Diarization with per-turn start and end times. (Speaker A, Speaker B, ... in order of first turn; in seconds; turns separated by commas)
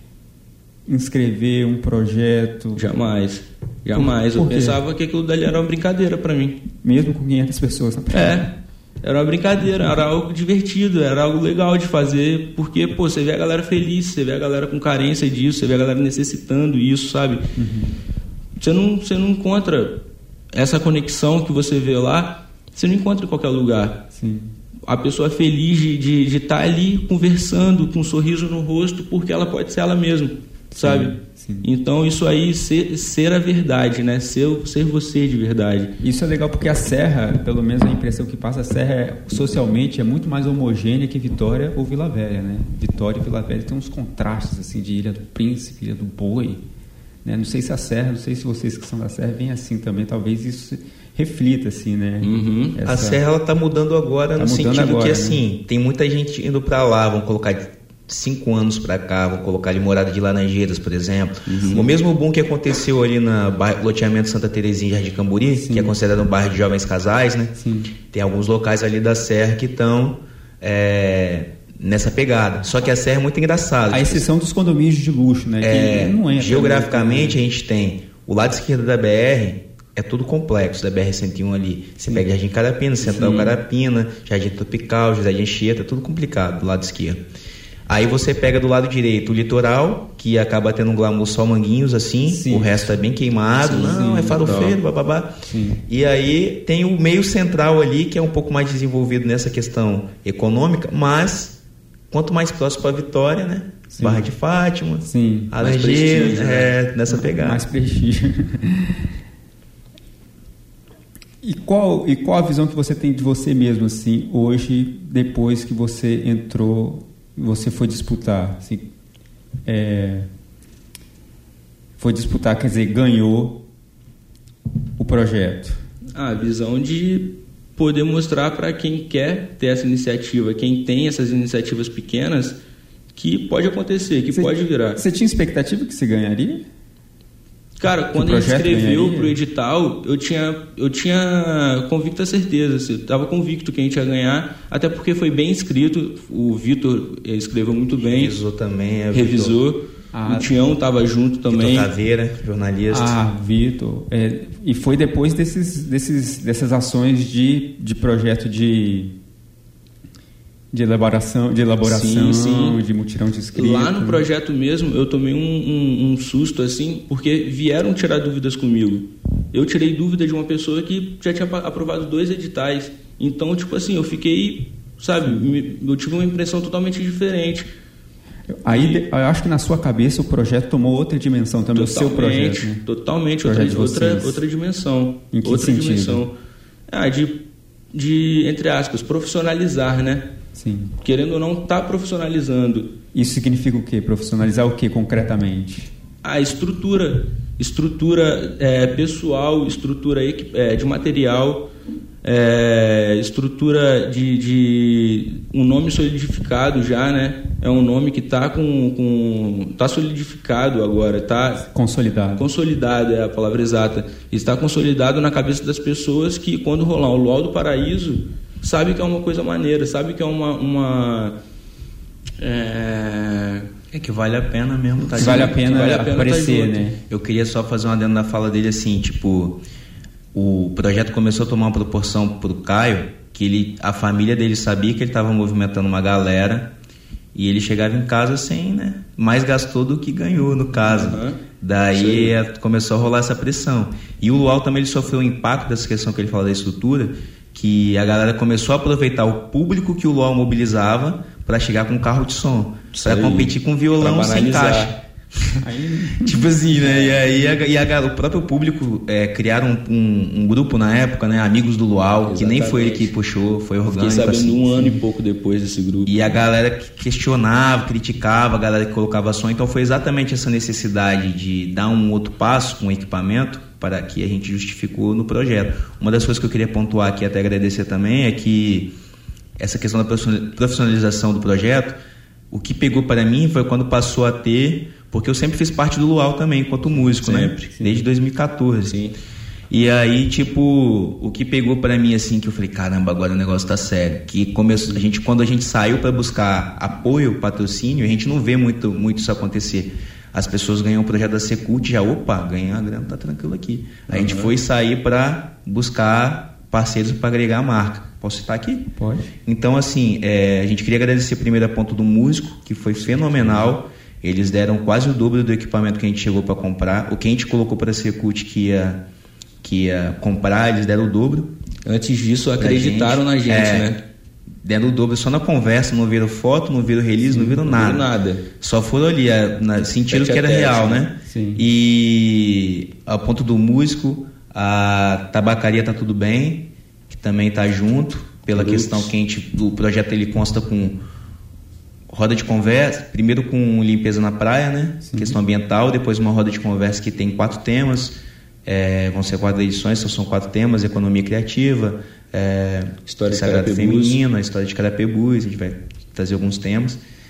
Speaker A: 0.8-2.8, Speaker B: 2.7-6.6, Speaker A: 3.9-4.8, Speaker A: 6.8-8.4, Speaker B: 8.1-8.5, Speaker B: 9.0-17.4, Speaker A: 17.6-17.9, Speaker B: 18.6-19.9, Speaker B: 20.5-24.0, Speaker A: 24.1-24.5, Speaker B: 24.9-35.9, Speaker A: 30.7-31.6, Speaker A: 36.0-46.6, Speaker A: 47.2-53.2, Speaker B: 52.2-52.8, Speaker C: 52.9-74.2, Speaker A: 54.4-55.4, Speaker A: 61.5-61.9, Speaker A: 65.5-65.9, Speaker A: 67.6-67.9, Speaker A: 73.9-77.4, Speaker C: 75.6-87.2, Speaker A: 83.1-83.5, Speaker C: 87.9-95.3, Speaker A: 92.2-92.9, Speaker B: 93.6-94.7, Speaker A: 93.7-94.7, Speaker A: 95.5-95.8, Speaker C: 95.9-101.5, Speaker C: 102.1-107.6, Speaker A: 103.9-104.3, Speaker A: 105.0-105.5, Speaker B: 105.6-106.8, Speaker A: 107.1-109.1, Speaker A: 111.4-118.8, Speaker A: 119.7-120.3, Speaker A: 122.0-123.5, Speaker A: 125.0-125.8, Speaker B: 126.1-132.6, Speaker B: 133.1-135.0, Speaker A: 134.3-136.6, Speaker B: 137.8-148.3, Speaker A: 138.1-139.4, Speaker C: 148.0-149.6, Speaker B: 149.1-151.9, Speaker A: 150.1-150.5, Speaker C: 151.5-153.2, Speaker A: 152.9-159.1, Speaker A: 160.7-164.2, Speaker B: 161.8-162.8, Speaker B: 163.5-177.7, Speaker A: 178.6-182.8, Speaker B: 178.7-179.0, Speaker B: 181.7-186.3, Speaker A: 183.4-184.4, Speaker A: 185.3-186.2, Speaker B: 186.9-187.4, Speaker B: 187.9-190.3, Speaker A: 190.5-190.9, Speaker B: 191.0-192.9, Speaker A: 193.1-195.9, Speaker B: 196.2-201.7, Speaker B: 202.2-211.6, Speaker A: 211.6-212.4, Speaker B: 212.3-221.3, Speaker B: 222.4-223.7, Speaker C: 223.9-225.7, Speaker A: 225.0-227.0, Speaker B: 225.2-226.9, Speaker C: 227.1-229.6, Speaker C: 230.3-236.7, Speaker C: 237.3-254.9, Speaker B: 240.8-241.4, Speaker B: 241.9-242.3, Speaker B: 252.9-254.9, Speaker A: 255.6-257.2, Speaker C: 256.2-264.8, Speaker B: 262.2-263.1, Speaker B: 263.9-266.1, Speaker C: 266.0-278.9, Speaker C: 279.6-282.0, Speaker C: 282.5-289.0, Speaker B: 287.2-287.9, Speaker B: 288.9-289.1, Speaker C: 289.7-308.9, Speaker B: 304.1-304.5, Speaker A: 308.9-309.3, Speaker C: 309.4-319.0, Speaker C: 319.6-321.5, Speaker B: 321.8-324.0, Speaker C: 322.6-323.9, Speaker C: 324.6-341.0, Speaker A: 327.3-327.5, Speaker B: 327.6-328.4, Speaker B: 330.1-331.0, Speaker A: 331.2-331.6, Speaker B: 338.5-339.1, Speaker C: 342.1-357.0, Speaker A: 345.0-345.4, Speaker B: 353.1-354.2